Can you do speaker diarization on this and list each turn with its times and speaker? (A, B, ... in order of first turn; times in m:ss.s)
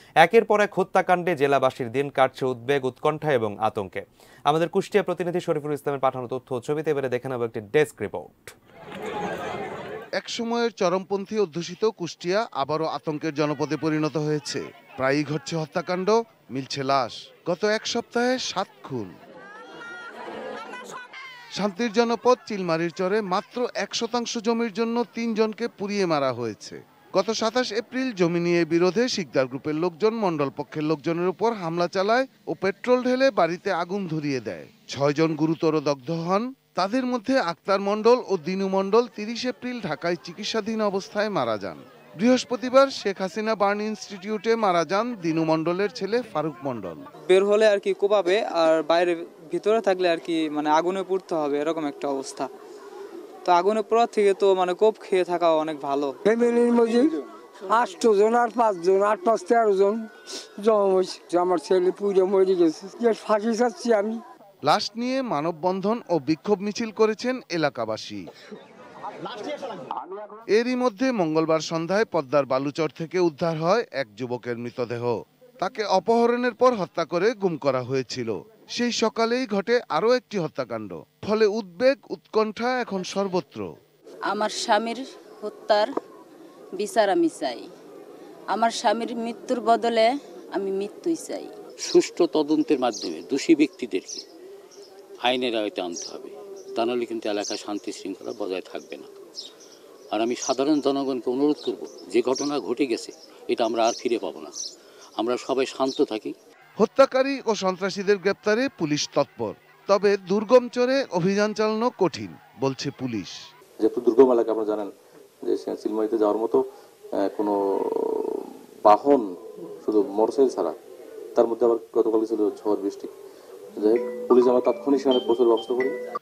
0:00.2-0:08.5 A
0:10.2-0:19.1 B
0:21.6-0:47.0 B
0:47.3-0:52.5 C
0:53.4-0:56.2 C
0:56.3-1:04.2 D
1:04.6-1:08.2 B
1:10.5-1:23.7 B
1:24.3-1:25.9 E
1:26.8-1:27.7 E
1:28.5-1:31.5 E
1:31.9-1:34.2 F
1:35.2-1:39.1 F
1:40.1-1:44.5 F
1:45.2-1:46.3 F
1:46.8-1:53.4 B
1:53.8-1:54.9 G
1:55.4-1:56.6 G
1:57.2-1:59.2 G
1:59.8-2:00.8 G
2:01.4-2:03.1 G
2:03.8-2:06.0 G